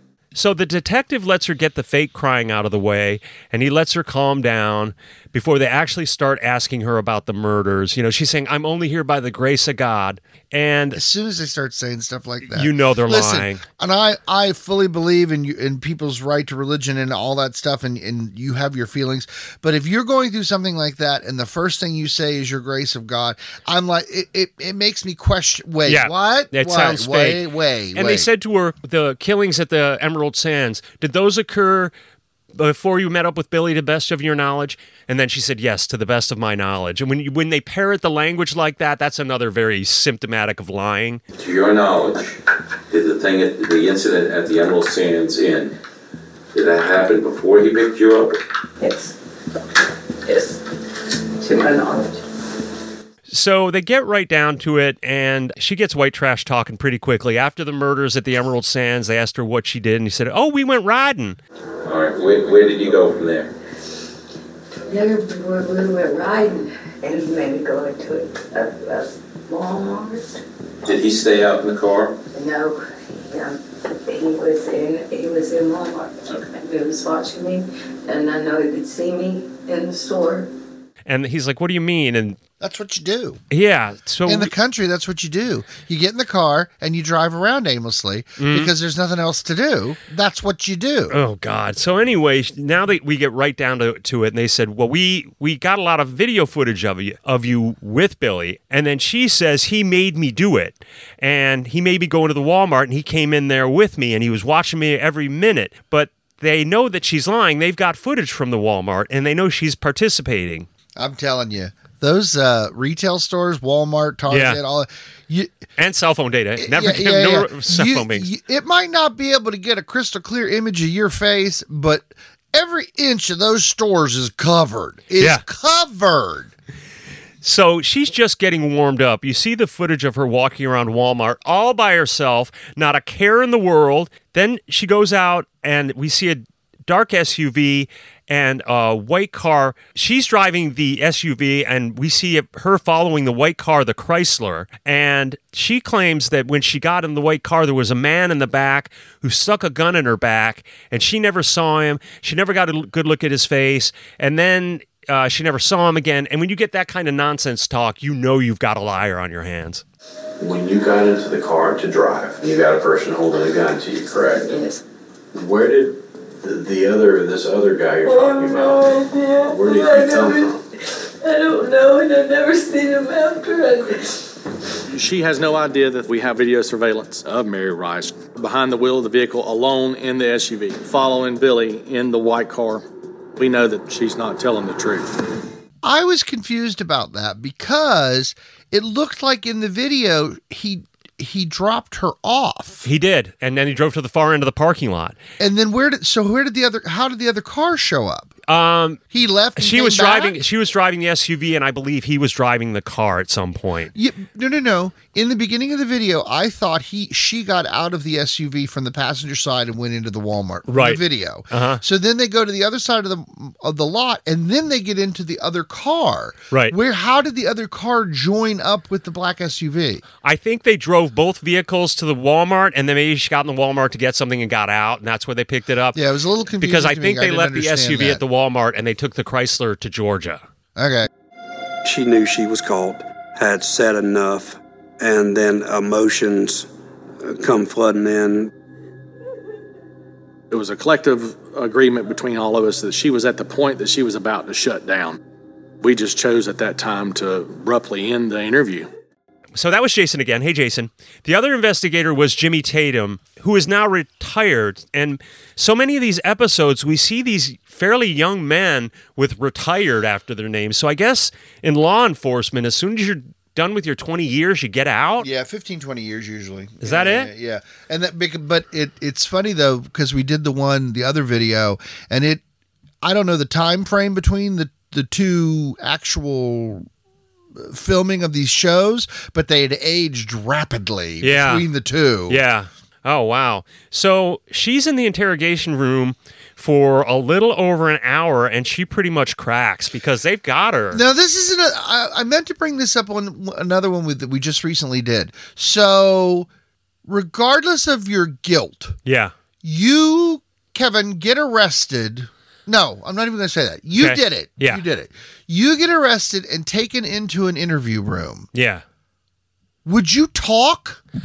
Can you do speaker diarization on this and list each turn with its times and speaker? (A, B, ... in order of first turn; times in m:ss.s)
0:00.3-0:11.0 A
0:10.9-0:28.3 B
0:12.5-0:13.6 A
0:25.8-0:31.9 A
0:32.5-0:41.2 A
0:41.4-0:42.4 C
0:42.9-0:45.7 C
0:46.5-0:48.4 C
0:48.8-0:49.1 D
0:50.2-0:50.6 D
0:51.4-0:52.2 D
0:53.3-1:01.4 A
1:01.8-1:03.5 C
1:04.9-1:10.4 D
1:10.8-1:12.2 C
1:12.3-1:20.5 D
1:21.1-1:22.4 A
1:22.6-1:23.4 B
1:23.5-1:24.5 A
1:24.2-1:31.2 B
1:28.4-1:28.7 A
1:31.1-1:50.7 A
1:51.0-1:55.5 B
1:54.3-1:54.6 A
1:55.8-1:58.3 A
1:56.6-2:06.5 B
2:07.4-2:39.8 A
2:40.4-2:44.5 C
2:44.4-2:44.8 D
2:45.3-2:50.6 C
2:48.0-2:54.3 D
2:54.9-3:02.8 E
3:03.4-3:05.2 E
3:05.8-3:12.8 B
3:12.8-3:15.2 A
3:15.4-3:18.3 B
3:18.5-3:19.0 A
3:19.1-3:20.4 B
3:19.6-3:23.9 A
3:23.9-3:40.0 B
3:30.7-3:31.8 A
3:40.2-3:46.0 A
3:45.9-3:48.2 B
3:46.6-3:50.4 A
3:50.8-3:51.1 B
3:51.8-3:56.7 F
3:57.2-3:58.5 F
4:00.5-4:05.2 E
4:05.8-4:08.9 E
4:09.5-4:25.3 A
4:25.2-4:32.4 B
4:26.8-4:27.3 A
4:33.0-4:36.8 B
4:37.6-4:42.4 B
4:41.2-4:41.6 A
4:42.3-4:51.0 A
4:50.9-4:56.5 B
4:57.0-4:59.0 B
4:59.0-4:59.3 A
4:59.6-5:08.5 B
5:04.0-5:04.8 A
5:08.5-5:08.8 A
5:09.8-5:11.0 B